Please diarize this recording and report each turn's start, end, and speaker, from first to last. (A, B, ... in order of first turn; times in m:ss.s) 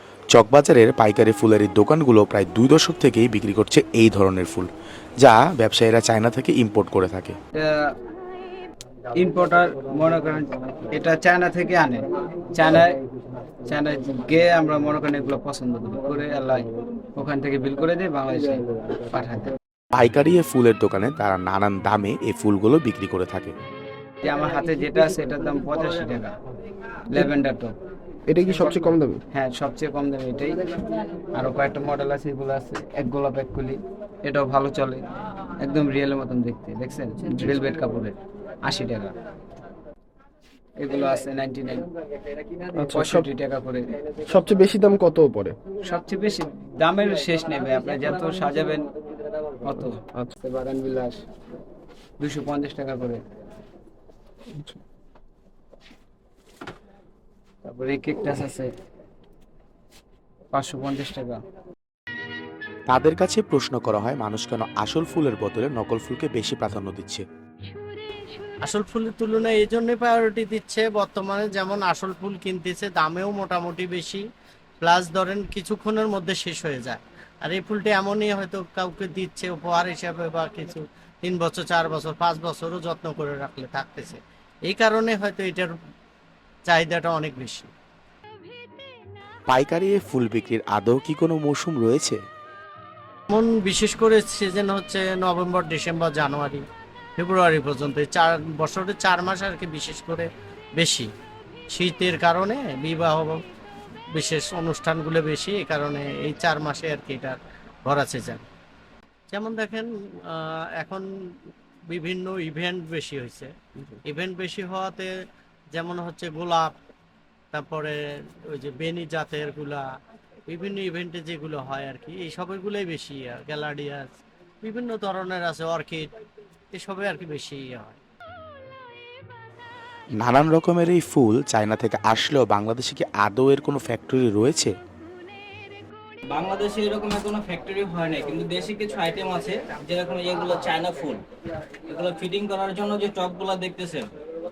0:00.3-0:04.7 A
0:05.2-0:07.4 A
0:07.5-0:07.9 B
0:09.2-0:12.9 B
0:13.6-0:19.5 B
0:19.9-0:23.5 A
0:24.2-0:26.3 B
0:27.1-0:27.7 B
0:28.3-0:29.2 C
0:29.3-0:30.6 B
0:31.4-0:35.1 B
0:35.6-0:39.1 B
0:40.8-0:41.9 B
0:42.8-0:43.3 C
0:42.9-0:43.9 B
0:44.3-0:45.6 C
0:45.8-0:48.9 B
0:49.6-0:51.2 B
0:52.2-0:53.2 B
0:57.6-0:58.7 B
1:00.5-1:01.4 B
1:02.9-1:07.2 A
1:08.6-1:14.2 D
1:14.8-1:25.8 D
1:26.7-1:27.7 D
1:29.5-1:32.2 A
1:33.3-1:36.6 D
1:37.2-1:41.1 D
1:41.7-1:43.4 D
1:44.1-1:48.4 D
1:49.3-1:51.0 D
1:51.9-1:53.5 D
1:54.0-1:55.1 D
1:55.7-1:56.8 D
1:57.5-1:59.8 D
2:00.5-2:06.1 D
2:06.7-2:08.0 D
2:10.2-2:14.7 A
2:16.3-2:21.2 E
2:21.9-2:24.1 E